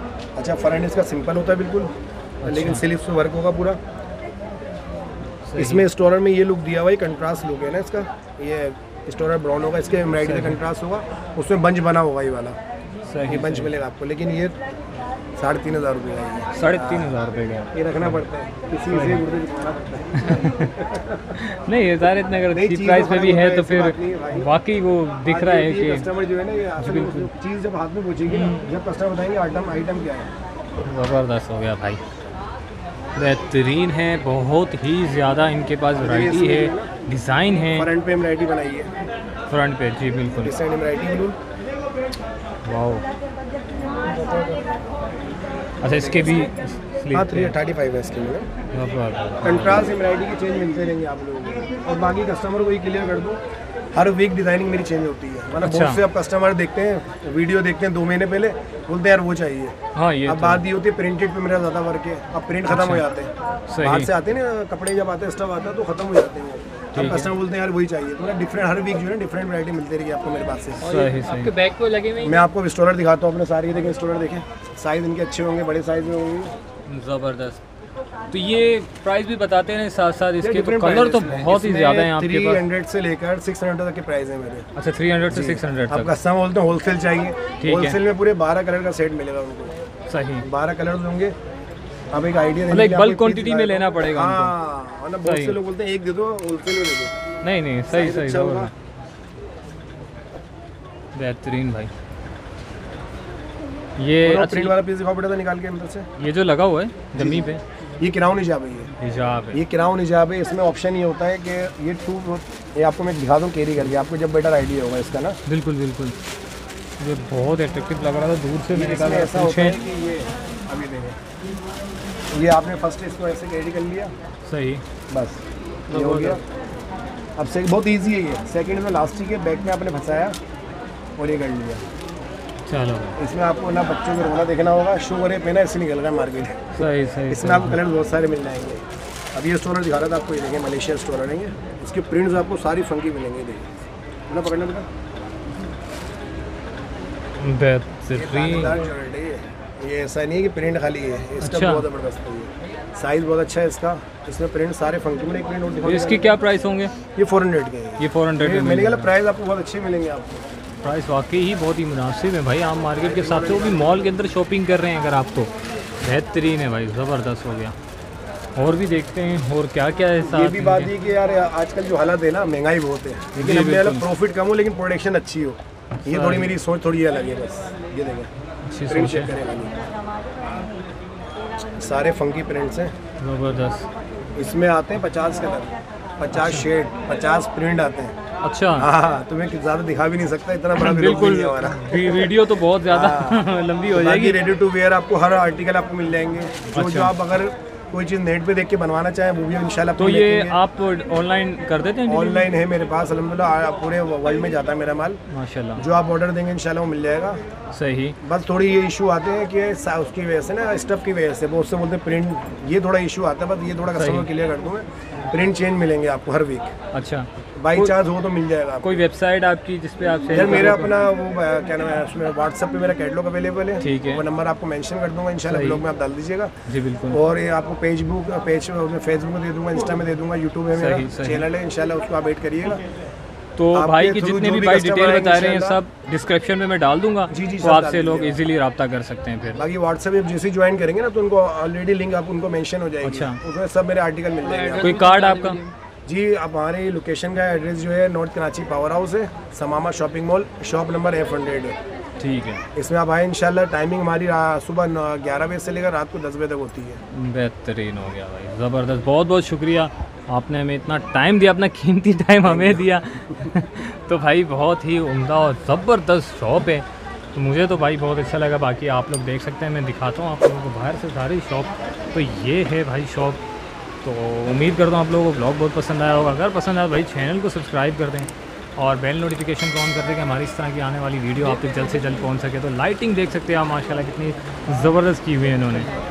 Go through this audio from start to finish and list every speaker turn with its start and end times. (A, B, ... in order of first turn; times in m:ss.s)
0:00.4-0:01.9 A
0:02.4-0:02.8 B
0:02.4-0:03.8 A
0:05.4-0:05.8 B
0:05.6-0:12.6 A
0:10.2-0:10.6 B
0:13.0-0:13.7 B
0:13.2-0:14.5 A
0:15.4-0:17.1 A
0:16.5-0:18.2 B
0:17.7-0:21.4 A
0:18.9-0:19.2 B
0:20.2-0:20.7 B
0:21.3-0:26.1 B
0:22.5-0:24.5 A
0:25.2-0:30.3 A
0:26.8-0:27.3 B
0:28.2-0:28.7 B
0:30.8-0:32.0 B
0:33.2-0:37.9 B
0:36.0-0:36.9 A
0:37.6-0:38.9 A
0:39.5-0:40.5 B
0:40.4-0:41.4 A
0:42.6-0:43.0 B
0:44.1-0:44.6 A
0:45.8-0:47.5 B
0:45.9-0:46.5 A
0:47.1-0:48.5 A
0:48.7-0:49.9 B
0:49.4-0:53.4 A
0:53.9-0:59.7 A
0:55.6-0:56.0 B
1:00.0-1:00.6 B
1:00.2-1:03.3 A
1:02.7-1:03.0 B
1:03.7-1:04.1 B
1:03.8-1:10.8 A
1:06.9-1:07.3 B
1:10.8-1:12.4 C
1:10.8-1:11.6 B
1:12.2-1:16.5 A
1:16.9-1:17.6 B
1:18.3-1:22.6 B
1:20.4-1:24.7 A
1:24.8-1:26.1 B
1:25.3-1:29.7 A
1:27.6-1:28.0 B
1:30.1-1:30.4 B
1:30.4-1:31.3 A
1:32.1-1:37.1 A
1:32.7-1:34.5 B
1:35.2-1:35.6 B
1:37.4-1:38.7 B
1:37.9-1:38.7 A
1:41.1-1:41.9 B
1:44.0-1:44.8 B
1:44.2-1:46.1 A
1:46.2-1:47.6 B
1:47.1-1:48.9 A
1:49.0-1:49.6 B
1:49.5-1:55.4 A
1:55.5-1:56.2 B
1:57.0-1:59.8 B
1:58.7-2:01.2 A
2:02.3-2:04.1 A
2:04.4-2:04.8 B
2:05.1-2:06.4 A
2:05.9-2:06.4 B
2:07.4-2:10.4 A
2:11.2-2:11.8 A
2:12.6-2:13.2 B
2:13.2-2:18.8 A
2:16.7-2:17.8 B
2:19.3-2:24.9 A
2:27.4-2:28.8 B
2:28.1-2:36.3 A
2:31.4-2:31.8 B
2:35.8-2:36.9 B
2:37.2-2:40.4 A
2:38.0-2:39.1 B
2:40.8-2:45.5 B
2:43.0-2:44.1 A
2:46.0-2:47.7 B
2:48.6-2:50.9 B
2:50.2-2:58.3 A
2:53.3-2:54.0 B
2:56.0-2:56.5 B
2:58.7-2:59.3 B
2:58.9-2:59.8 A
3:01.8-3:02.9 A
3:03.2-3:03.9 B
3:04.4-3:08.1 A
3:06.3-3:06.6 B
3:08.4-3:08.9 B
3:08.8-3:20.6 A
3:10.7-3:14.4 B
3:16.7-3:17.1 B
3:20.0-3:22.5 B
3:22.1-3:25.2 A
3:25.3-3:25.8 B
3:25.8-3:27.4 A
3:27.7-3:28.2 B
3:28.2-3:36.7 A
3:33.9-3:34.3 B
3:36.9-3:38.0 B
3:37.6-3:38.9 A
3:38.8-3:41.0 B
3:40.3-3:46.5 A
3:43.8-3:44.2 B
3:45.5-3:45.8 B
3:46.6-3:47.2 B
3:47.1-3:52.8 A
3:50.7-3:51.5 B
3:53.6-3:59.6 B
3:53.7-3:55.8 A
3:57.3-3:58.4 A
3:59.5-4:05.0 A
4:03.0-4:03.4 B
4:04.4-4:05.7 C
4:04.8-4:05.6 B
4:06.0-4:11.8 A
4:12.2-4:12.6 B
4:12.7-4:17.0 A
4:17.1-4:33.4 B
4:22.4-4:22.9 A
4:34.0-4:45.9 B